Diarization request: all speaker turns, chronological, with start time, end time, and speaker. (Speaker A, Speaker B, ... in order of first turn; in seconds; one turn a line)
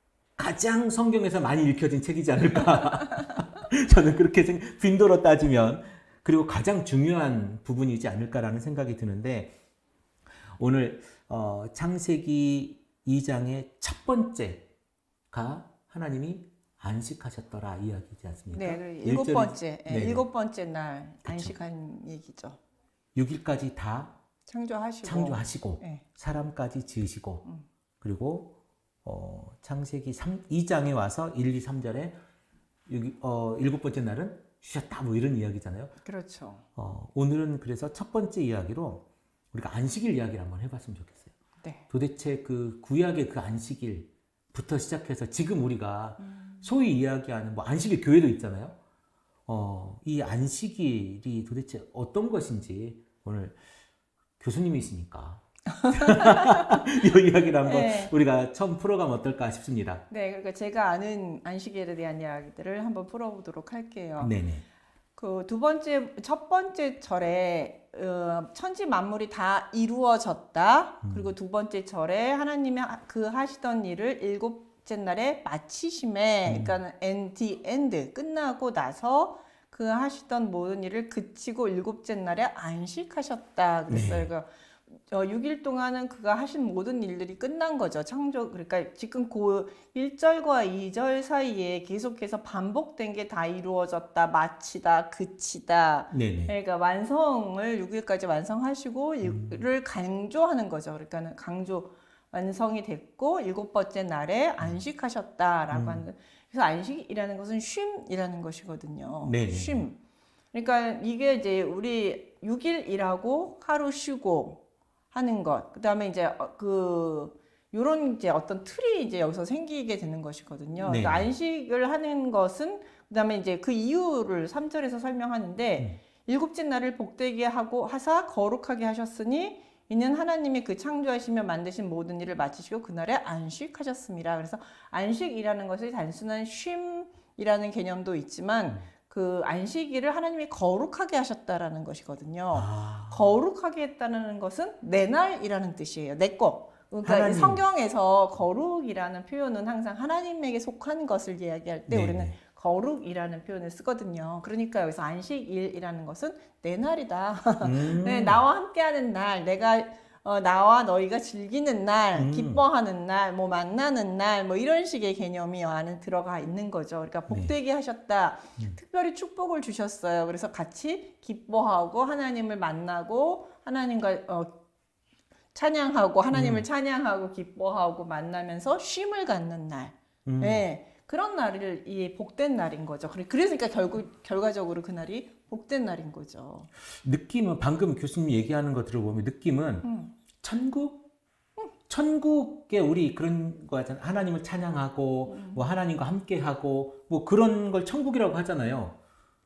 Speaker A: 0.4-9.6
Speaker A: 10.6-14.7
Speaker A: 15.3-20.2
Speaker B: 18.5-22.6
Speaker A: 21.2-21.5
Speaker A: 23.1-24.1
Speaker B: 24.5-26.0
Speaker A: 25.0-27.4
Speaker A: 28.0-32.2
Speaker A: 32.9-35.9
Speaker B: 36.0-36.6
Speaker A: 36.8-41.3
Speaker A: 41.9-48.8
Speaker B: 46.2-46.7
Speaker A: 49.5-53.6
Speaker A: 54.4-60.0
Speaker B: 55.7-56.9
Speaker B: 57.6-58.1
Speaker B: 60.1-64.3
Speaker A: 64.2-64.6
Speaker B: 65.2-110.0
Speaker A: 71.0-71.3
Speaker A: 76.5-76.7
Speaker A: 83.9-84.3
Speaker A: 96.1-96.5
Speaker A: 99.2-99.6
Speaker A: 105.7-106.0
Speaker A: 109.2-109.8
Speaker B: 110.5-114.6
Speaker B: 115.1-174.6
Speaker A: 120.8-121.3
Speaker A: 142.5-143.3
Speaker A: 147.1-147.6
Speaker A: 151.9-152.3
Speaker A: 157.6-158.4
Speaker A: 162.2-162.6
Speaker A: 167.3-167.5
Speaker B: 175.5-186.7
Speaker A: 176.3-176.7
Speaker A: 180.2-180.7
Speaker A: 187.0-189.9
Speaker B: 189.8-190.1
Speaker A: 190.4-191.1
Speaker A: 191.9-199.0
Speaker B: 195.3-195.6